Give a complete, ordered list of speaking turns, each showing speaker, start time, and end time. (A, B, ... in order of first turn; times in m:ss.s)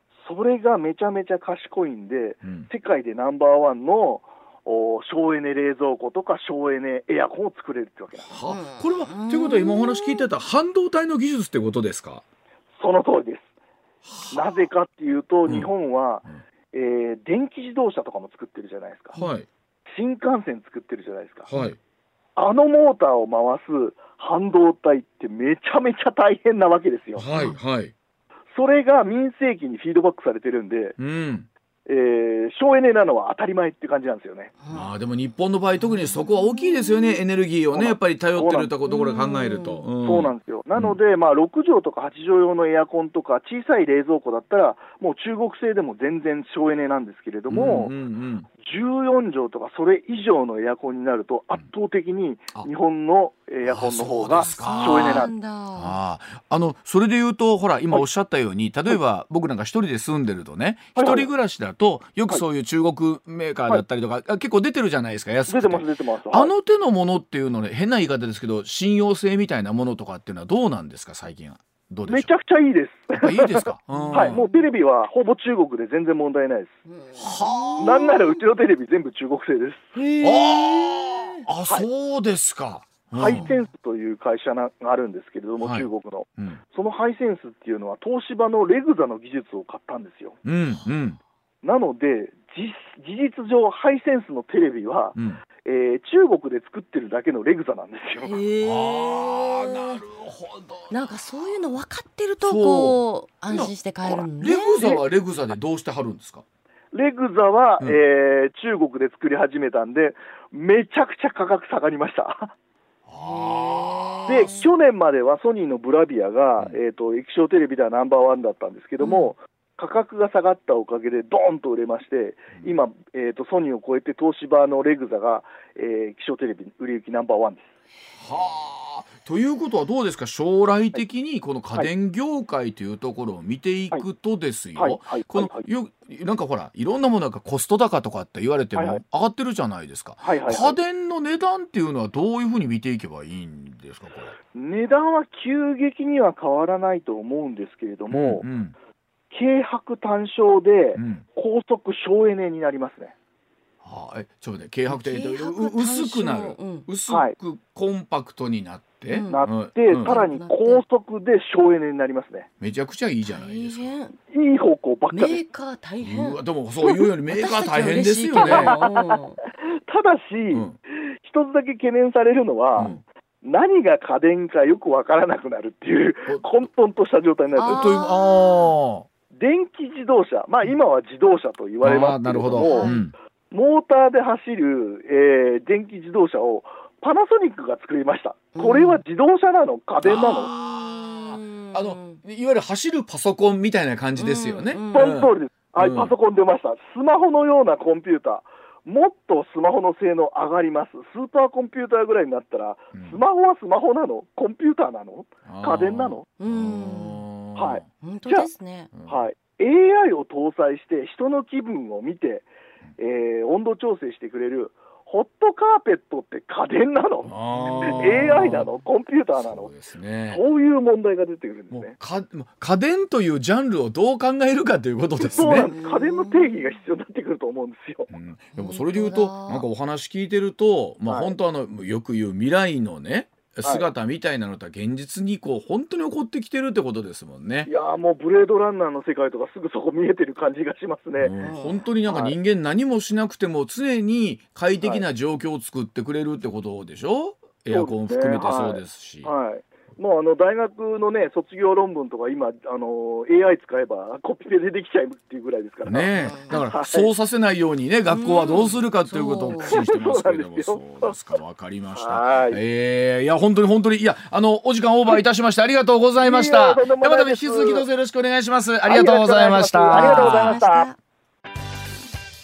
0:00.2-0:08.3 A
0:08.2-0:12.2 B
0:08.5-0:10.3 C
0:12.8-0:13.5 A
0:14.0-0:14.5 B
0:14.3-0:19.2 A
0:15.4-0:15.7 B
0:19.1-0:19.4 B
0:19.9-0:21.5 A
0:21.5-0:21.8 B
0:22.4-0:27.2 A
0:27.2-0:27.9 B
0:28.5-0:31.0 A
0:31.0-0:31.5 B
0:31.8-0:34.5 A
0:34.6-0:34.9 C
0:34.7-0:41.0 B
0:36.2-0:37.2 C
0:37.7-0:38.7 A
0:38.9-0:39.8 C
0:40.0-0:47.9 A
0:47.5-0:48.5 B
0:48.6-0:55.3 A
0:53.6-1:12.3 B
0:54.6-0:56.0 C
1:01.0-1:01.3 A
1:05.5-1:06.5 A
1:12.1-1:16.8 A
1:13.1-1:14.4 B
1:13.9-1:14.7 C
1:16.9-1:18.4 C
1:17.2-1:18.0 B
1:17.8-1:19.9 A
1:19.9-1:21.4 C
1:20.2-1:23.5 B
1:23.1-1:30.4 A
1:23.2-1:23.6 C
1:25.6-1:25.9 B
1:30.4-1:31.2 B
1:31.6-1:38.4 A
1:35.2-1:35.4 B
1:38.2-1:40.0 C
1:38.6-1:40.9 B
1:40.9-1:44.8 C
1:42.4-1:46.4 B
1:46.9-1:52.5 A
1:53.1-1:54.7 B
1:53.2-1:54.7 C
1:54.2-2:07.7 A
1:59.0-1:59.3 C
2:08.2-2:24.3 B
2:14.8-2:15.7 A
2:18.7-2:19.0 A
2:20.2-2:20.8 A
2:24.5-2:28.4 A
2:28.1-2:28.7 B
2:29.3-2:33.1 A
2:30.9-2:31.2 B
2:33.8-2:40.1 B
2:34.9-2:36.9 C
2:37.1-2:37.3 A
2:39.1-2:39.4 C
2:39.3-2:42.5 A
2:40.0-2:40.8 C
2:42.6-2:43.9 B
2:43.3-2:44.1 C
2:44.3-2:45.4 A
2:45.1-2:49.4 C
2:46.0-2:48.8 B
2:48.4-2:57.9 A
2:50.5-2:50.8 B
2:52.8-2:53.0 B
2:57.6-2:58.7 C
2:57.7-2:59.0 B
2:59.3-3:03.0 A
3:01.8-3:03.1 B
3:02.5-3:03.0 C
3:03.5-3:10.5 A
3:08.5-3:09.0 C
3:10.0-3:16.1 B
3:10.1-3:12.2 C
3:14.2-3:15.1 C
3:14.9-3:26.2 A
3:22.9-3:23.2 B
3:25.4-3:27.9 B
3:26.4-3:27.2 C
3:27.6-3:28.5 A
3:28.0-3:28.9 C
3:28.9-3:29.2 B
3:29.0-3:32.4 A
3:33.0-3:39.7 A
3:37.2-3:38.7 B
3:37.6-3:38.2 C
3:39.4-3:40.4 B
3:40.3-3:42.0 A
3:41.7-3:45.7 B
3:45.2-3:48.1 A
3:45.4-3:46.8 C
3:48.1-3:57.7 B
3:48.6-3:49.6 C
3:51.0-3:51.4 A
3:53.6-3:53.9 A
3:57.6-4:01.4 A
4:01.2-4:09.3 B
4:01.4-4:01.8 C
4:02.0-4:02.4 A
4:04.8-4:05.0 A
4:07.7-4:17.1 A
4:15.8-4:30.6 B
4:16.2-4:16.6 C
4:18.1-4:19.8 C
4:19.6-4:21.2 A
4:21.9-4:22.6 A
4:26.2-4:27.9 A
4:28.8-4:30.9 A
4:29.9-4:31.0 C